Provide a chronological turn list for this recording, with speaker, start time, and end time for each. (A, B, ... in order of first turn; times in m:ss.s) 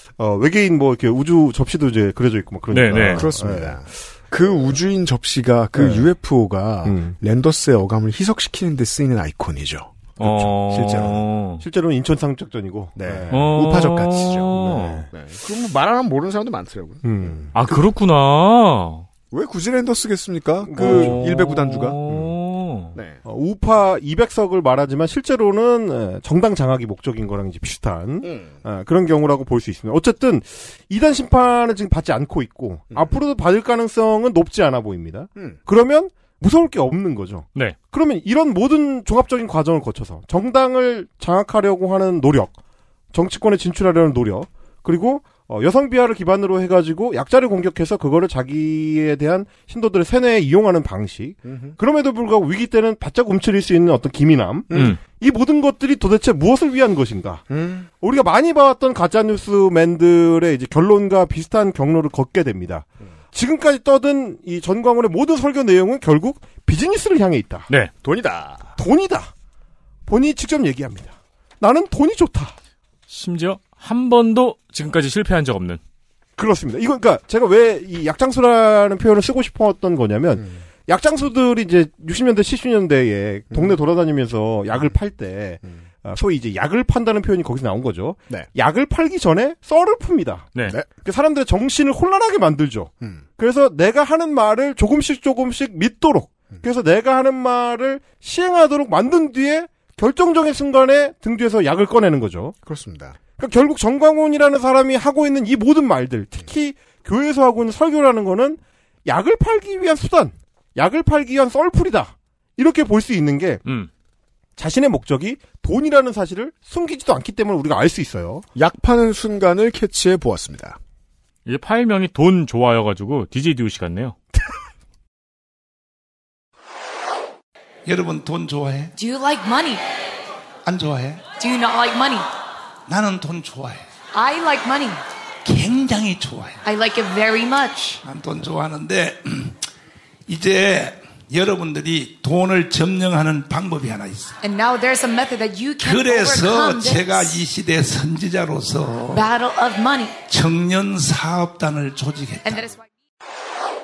0:00.2-0:03.8 A
0:02.7-0:03.2 B
0:02.9-0:11.3 C
0:05.7-0:06.1 A
0:06.8-0:07.1 A
0:10.2-0:11.6 B
0:11.6-0:13.5 A
0:13.0-0:17.8 C
0:13.3-0:15.0 B
0:14.5-0:15.1 A
0:17.0-0:17.5 A
0:17.5-0:19.0 B
0:19.3-0:22.4 C
0:20.6-0:21.2 A
0:20.8-0:23.0 B
0:22.9-0:23.2 C
0:23.2-0:42.5 A
0:28.2-0:28.5 C
0:43.1-0:57.4 A
0:51.4-0:51.8 C
0:54.7-0:55.0 C
0:54.7-0:55.0 B
0:57.5-0:57.9 C
0:58.0-1:07.7 A
1:08.0-1:08.7 C
1:08.8-1:09.3 A
1:10.1-1:12.5 A
1:13.1-1:15.8 B
1:16.4-1:30.5 A
1:23.5-1:23.8 C
1:31.0-1:42.5 A
1:42.6-1:43.2 C
1:43.4-1:53.6 A
1:54.6-1:58.4 A
1:58.5-2:00.8 C
2:01.4-2:04.2 B
2:07.8-2:08.9 D
2:08.9-2:09.8 E
2:10.6-2:11.2 D
2:11.4-2:12.3 E
2:12.9-2:13.8 D
2:14.1-2:15.0 E
2:15.4-2:16.6 D
2:16.6-2:18.0 E
2:18.0-2:19.6 D
2:20.3-2:24.4 D
2:24.4-2:27.4 E
2:25.8-2:29.2 D
2:29.1-2:30.2 E
2:30.3-2:32.7 D
2:32.4-2:32.8 E